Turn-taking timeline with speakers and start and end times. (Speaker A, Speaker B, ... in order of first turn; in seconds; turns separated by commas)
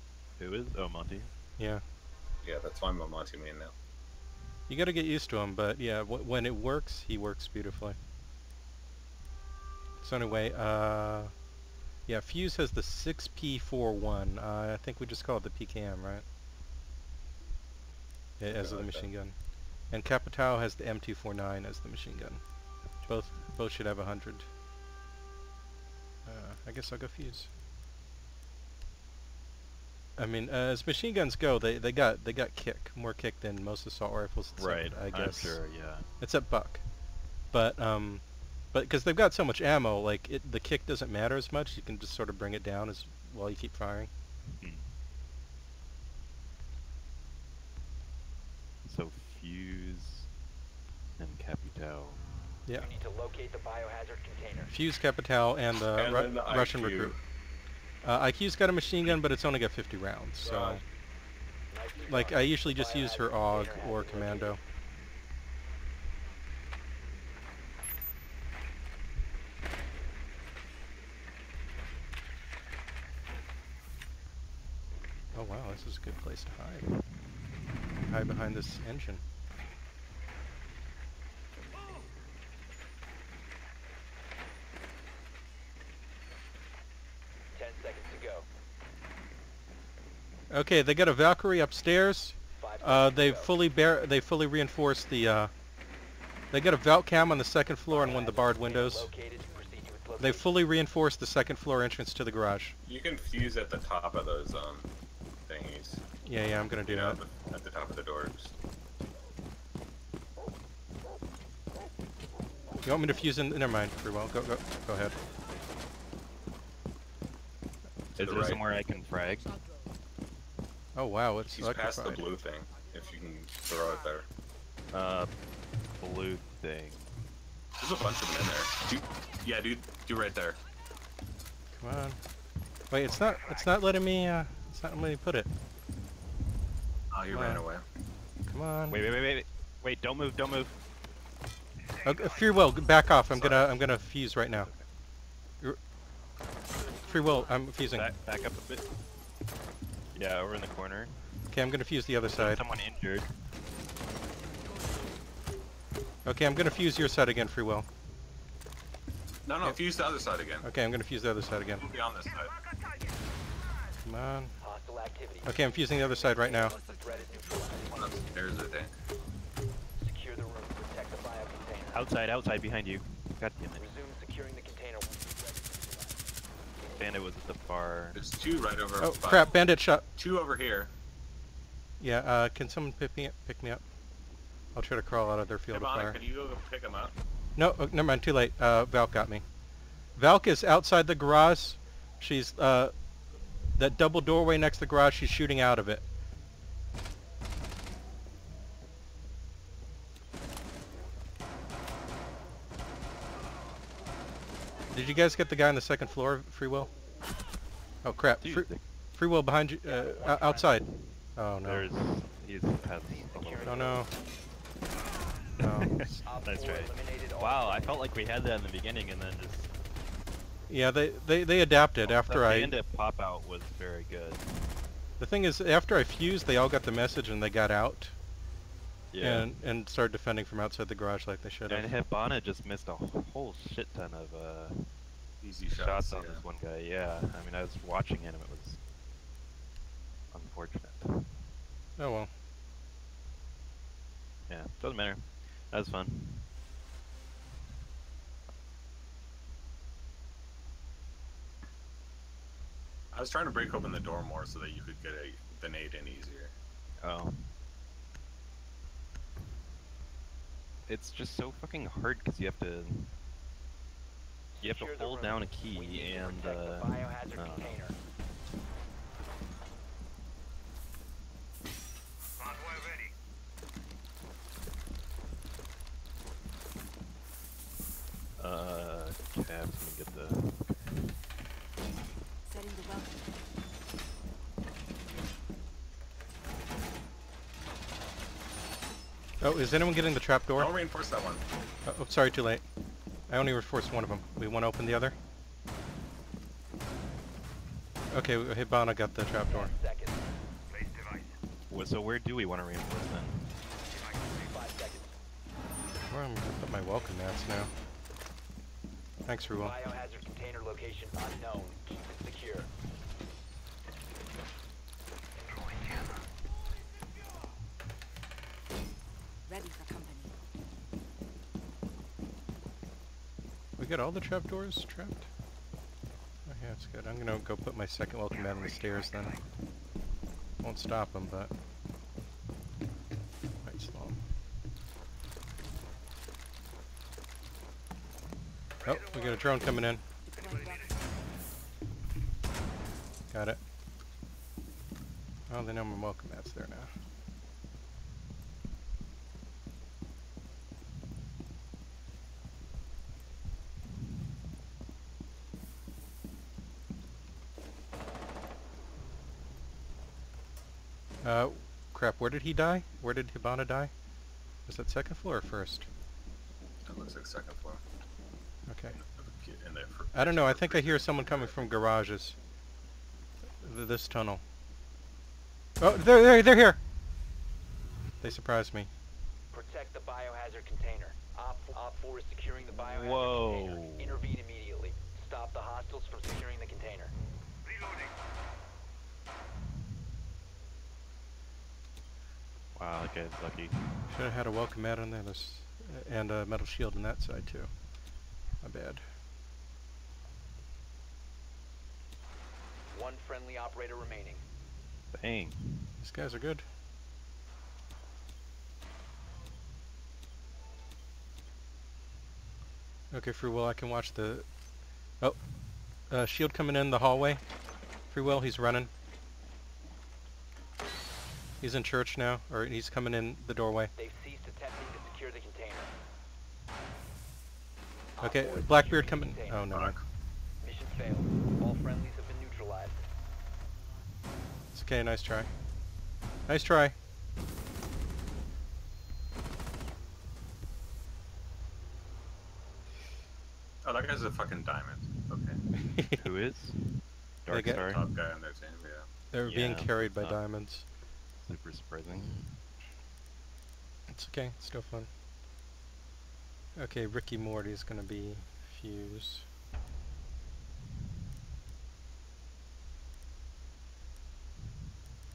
Speaker A: 0.4-1.3, Speaker B: 1.6-1.8, Speaker C: 2.4-3.7, Speaker B: 4.7-8.0, Speaker B: 10.0-11.3, Speaker B: 12.1-16.2, Speaker B: 18.4-19.4, Speaker C: 18.5-19.1, Speaker B: 19.9-22.4, Speaker B: 23.0-24.5, Speaker B: 26.3-27.5, Speaker B: 30.2-36.9, Speaker A: 34.6-36.1, Speaker B: 37.5-44.1, Speaker A: 44.6-44.9, Speaker A: 48.9-50.3, Speaker A: 51.2-52.2, Speaker D: 52.7-54.7, Speaker B: 54.7-57.2, Speaker C: 55.8-57.2, Speaker B: 58.0-60.8, Speaker C: 60.4-60.8, Speaker D: 61.7-64.6, Speaker B: 62.0-64.6, Speaker B: 75.3-77.0, Speaker B: 78.0-79.2, Speaker D: 87.5-88.5, Speaker B: 90.5-95.5, Speaker D: 92.5-93.5, Speaker B: 96.5-99.1, Speaker D: 97.9-100.5, Speaker B: 100.2-102.8, Speaker C: 102.8-104.9, Speaker C: 105.5-106.0, Speaker B: 106.2-107.2, Speaker C: 106.8-108.5, Speaker B: 112.8-115.2, Speaker A: 118.2-119.5, Speaker C: 118.2-118.6, Speaker B: 121.0-122.3, Speaker C: 121.5-124.3, Speaker A: 124.9-125.3, Speaker A: 126.0-127.2, Speaker C: 127.8-130.6, Speaker B: 131.8-132.2, Speaker B: 132.9-135.5, Speaker C: 137.1-137.8, Speaker B: 137.3-137.6, Speaker B: 138.5-139.0, Speaker A: 138.9-140.8, Speaker B: 142.0-144.7, Speaker C: 143.3-143.8, Speaker A: 144.5-144.9, Speaker E: 146.8-147.7, Speaker B: 147.0-148.1, Speaker A: 147.9-148.9, Speaker A: 150.1-151.2, Speaker B: 151.5-152.6, Speaker A: 152.3-153.3, Speaker B: 156.2-157.9, Speaker C: 159.4-160.7, Speaker B: 160.6-161.9, Speaker C: 161.8-162.5, Speaker B: 164.0-164.6, Speaker D: 164.6-168.2, Speaker B: 165.4-166.8, Speaker C: 167.9-168.9, Speaker D: 170.0-172.1, Speaker A: 171.9-173.9, Speaker D: 173.8-176.3, Speaker A: 177.0-178.2, Speaker C: 178.1-179.6, Speaker B: 179.0-180.1, Speaker C: 180.1-180.9, Speaker B: 182.0-183.8, Speaker B: 184.7-186.2, Speaker C: 185.7-187.1, Speaker B: 187.6-189.4, Speaker B: 190.2-192.9, Speaker B: 193.8-196.0, Speaker B: 204.9-206.9, Speaker B: 208.0-211.9, Speaker A: 208.4-208.8, Speaker D: 209.8-210.8, Speaker A: 211.6-213.8, Speaker D: 213.0-214.1, Speaker B: 213.6-214.1, Speaker B: 215.6-216.1, Speaker A: 215.6-219.7, Speaker D: 216.2-218.1, Speaker B: 220.7-222.8, Speaker A: 222.0-224.4, Speaker B: 225.2-228.2, Speaker A: 229.1-229.5, Speaker B: 229.2-231.9, Speaker A: 231.7-234.9, Speaker C: 235.4-236.4, Speaker A: 235.7-238.8, Speaker A: 240.3-241.3, Speaker B: 242.0-242.3, Speaker A: 244.5-246.5, Speaker C: 253.1-256.5, Speaker A: 257.0-257.5, Speaker A: 260.9-263.1, Speaker D: 264.6-268.0, Speaker A: 264.6-267.9, Speaker A: 278.4-281.0, Speaker E: 282.5-283.4, Speaker B: 289.4-290.7, Speaker C: 290.6-291.4, Speaker B: 291.8-292.6, Speaker B: 293.3-295.2, Speaker B: 298.1-299.7, Speaker D: 299.5-300.2, Speaker D: 300.8-301.1, Speaker A: 301.7-303.5, Speaker D: 304.0-305.1, Speaker B: 306.1-307.7, Speaker B: 309.3-309.8, Speaker D: 309.6-312.7, Speaker E: 319.5-320.4, Speaker B: 323.8-325.3, Speaker B: 326.5-329.4, Speaker B: 330.6-331.5, Speaker B: 333.6-334.2, Speaker B: 338.8-340.0, Speaker E: 340.3-341.0, Speaker B: 343.3-343.6, Speaker B: 345.5-346.9, Speaker B: 361.2-363.9, Speaker B: 364.6-365.9, Speaker C: 366.9-367.8, Speaker B: 368.7-369.0, Speaker C: 368.9-371.7, Speaker B: 370.1-372.4, Speaker B: 373.6-374.4, Speaker B: 375.8-376.8, Speaker B: 378.2-378.9, Speaker D: 379.5-387.1, Speaker A: 382.7-384.3, Speaker A: 392.8-394.1, Speaker B: 394.1-397.7, Speaker B: 398.6-399.1, Speaker D: 402.9-404.4, Speaker A: 405.1-405.9, Speaker B: 406.0-406.6, Speaker B: 413.1-414.5, Speaker B: 416.1-417.4, Speaker B: 418.1-418.9, Speaker B: 421.6-423.9, Speaker D: 424.0-425.9, Speaker D: 428.2-429.7, Speaker B: 428.2-430.0, Speaker C: 429.7-430.0, Speaker D: 430.6-433.1, Speaker B: 434.7-435.5, Speaker B: 436.5-436.9, Speaker C: 443.8-445.6, Speaker B: 445.8-446.1, Speaker A: 446.1-448.1, Speaker B: 447.5-447.9, Speaker C: 447.9-449.1, Speaker B: 449.3-450.9, Speaker A: 449.4-450.4, Speaker A: 451.4-452.6, Speaker B: 454.1-455.1, Speaker B: 456.8-459.5